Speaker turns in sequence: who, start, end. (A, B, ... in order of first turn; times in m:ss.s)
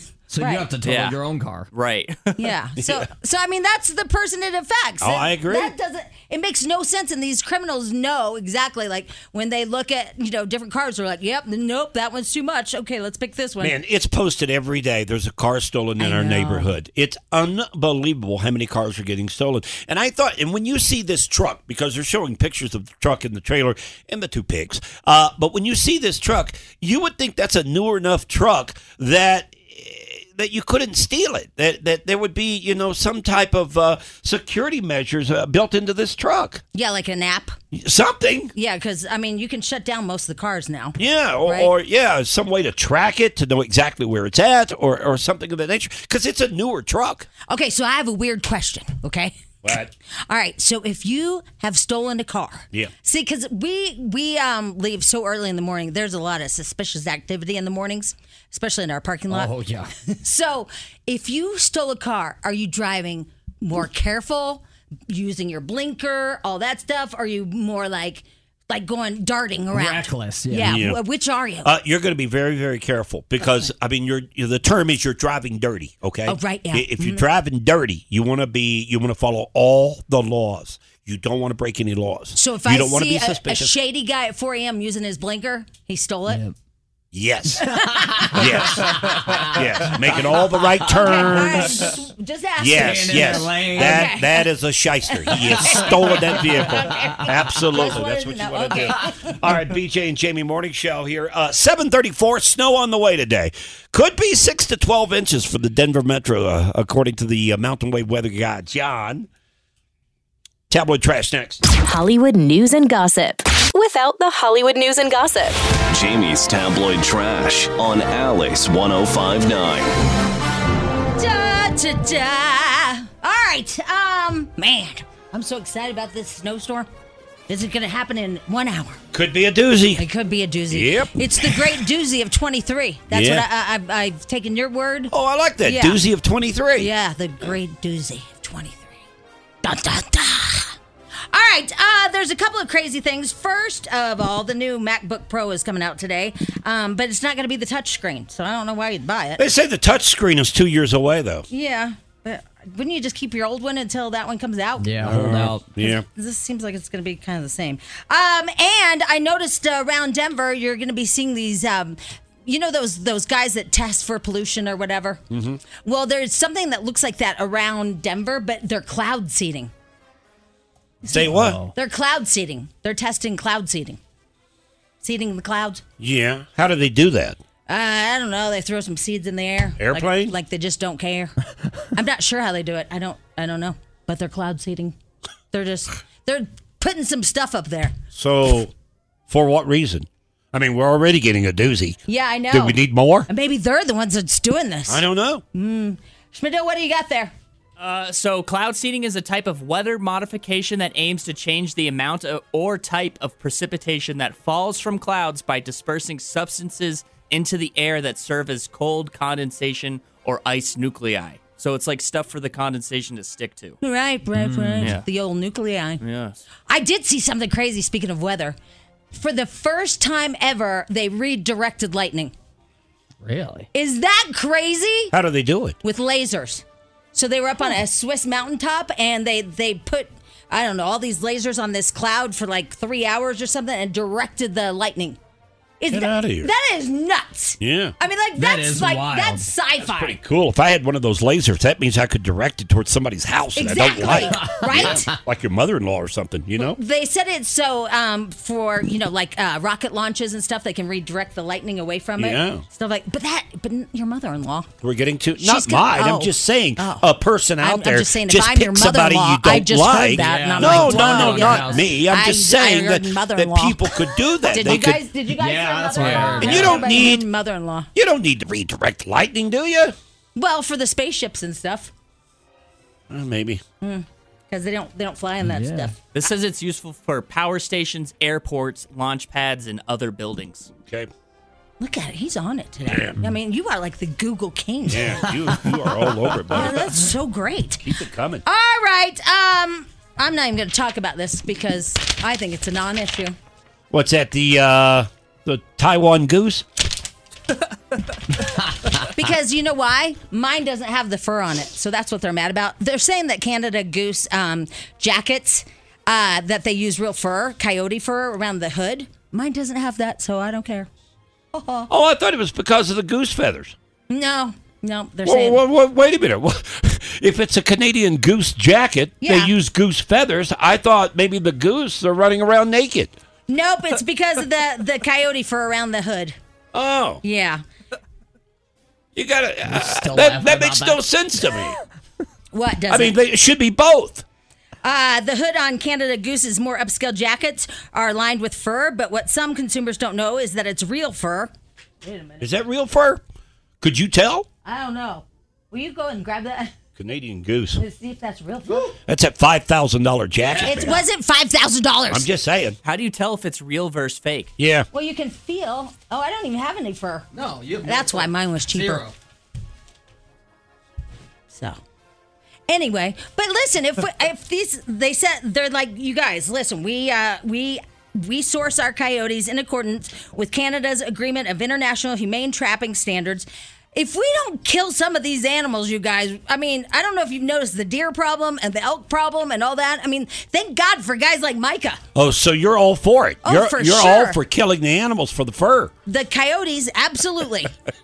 0:00.3-0:01.7 A
0:00.4-0:00.7 B
0:00.8-0:01.2 C
0:01.7-0:02.5 C
0:02.4-0:13.8 B
0:05.0-0:05.7 D
0:13.6-0:36.6 D
0:16.0-0:16.7 B
0:36.7-0:37.6 B
0:37.7-0:38.5 D
0:38.6-0:41.7 B
0:41.0-0:47.3 D
0:47.5-0:49.4 B
0:49.6-0:49.9 D
0:50.3-0:59.5 B
0:59.3-0:59.9 A
1:00.1-1:11.7 B
1:09.7-1:10.8 A
1:10.6-1:11.0 D
1:11.6-1:23.7 D
1:13.4-1:13.7 B
1:16.3-1:17.2 B
1:22.4-1:26.4 B
1:26.3-1:26.5 A
1:27.1-1:27.7 D
1:27.6-1:28.4 B
1:27.6-1:31.7 A
1:28.3-1:31.9 D
1:30.9-1:34.5 B
1:32.6-1:49.3 D
1:32.8-1:34.2 A
1:35.1-1:39.4 B
1:35.3-1:36.0 A
1:50.7-1:51.6 D
1:51.8-1:55.6 E
1:55.9-2:00.0 F
2:01.1-2:06.9 B
2:07.5-2:09.0 B
2:09.1-2:10.0 D
2:10.0-2:16.0 B
2:10.7-2:11.8 D
2:13.1-2:13.5 D
2:15.1-2:16.9 D
2:16.8-2:19.0 B
2:19.6-2:20.8 B
2:21.3-2:29.4 B
2:29.4-2:31.5 D
2:31.5-2:34.9 B
2:34.8-2:35.6 A
2:35.0-2:36.0 D
2:35.8-2:45.2 B
2:45.3-2:45.6 D
2:45.7-2:49.7 B
2:51.0-2:51.6 D
2:51.1-2:51.7 A
2:51.7-2:54.0 B
2:55.0-2:55.8 B
2:56.0-2:57.4 D
2:57.7-3:01.4 B
2:59.8-3:00.3 D
3:01.9-3:05.0 B
3:05.5-3:08.0 B
3:08.1-3:08.7 D
3:09.3-3:12.0 D
3:12.1-3:17.3 B
3:12.5-3:13.3 D
3:14.9-3:15.4 D
3:17.8-3:33.8 C
3:33.8-3:36.0 B
3:34.3-3:35.0 A
3:36.0-3:36.4 C
3:36.7-3:38.6 B
3:39.1-3:42.3 B
3:43.2-3:43.7 A
3:43.7-3:45.1 B
3:45.1-3:45.8 D
3:45.8-3:55.2 B
3:55.8-4:00.2 B
3:55.9-3:56.5 D
3:57.6-3:58.0 D
3:58.4-3:59.5 A
3:59.8-4:06.8 D
4:03.6-4:05.1 B
4:04.1-4:05.2 A
4:06.6-4:14.7 B
4:12.2-4:12.6 D
4:14.8-4:25.0 D
4:15.4-4:17.1 B
4:17.6-4:27.9 B
4:20.2-4:21.9 A
4:25.3-4:26.9 A
4:26.0-4:26.6 C
4:26.4-4:27.3 D
4:28.0-4:30.0 D
4:30.4-4:31.9 B
4:33.1-4:33.6 D
4:33.8-4:36.0 B
4:35.4-4:35.9 A
4:36.1-4:40.7 C
4:40.8-4:41.1 D
4:41.8-4:45.3 B
4:42.9-4:43.2 D
4:44.9-4:47.0 D
4:46.5-4:47.9 B
4:47.8-4:48.4 D
4:48.4-4:53.4 B
4:53.9-4:56.6 D
4:59.1-5:10.9 B
5:11.5-5:11.9 B
5:11.9-5:13.7 D
5:14.1-5:15.6 B
5:15.2-5:23.1 D
5:19.2-5:19.5 B
5:23.5-5:26.4 B
5:26.7-5:27.2 D
5:27.2-5:27.6 B
5:29.1-5:31.8 D
5:29.7-5:31.0 A
5:32.5-5:33.2 B
5:32.9-5:34.2 D
5:34.8-5:41.5 B
5:42.0-5:42.5 B
5:42.4-5:43.2 D
5:43.8-5:44.5 D
5:44.6-5:46.7 B
5:47.0-5:47.8 D
5:47.8-5:48.9 B
5:49.1-5:51.0 D
5:50.4-5:51.0 A
5:50.6-5:52.3 B
5:52.1-5:52.8 D
5:52.8-5:54.5 C
5:54.6-5:54.9 D
5:54.9-5:57.3 B
5:57.3-5:59.1 A
5:57.8-5:59.0 B
6:01.5-6:01.8 B
6:02.7-6:22.0 B
6:22.1-6:25.9 D
6:23.4-6:24.4 B
6:26.1-6:27.7 B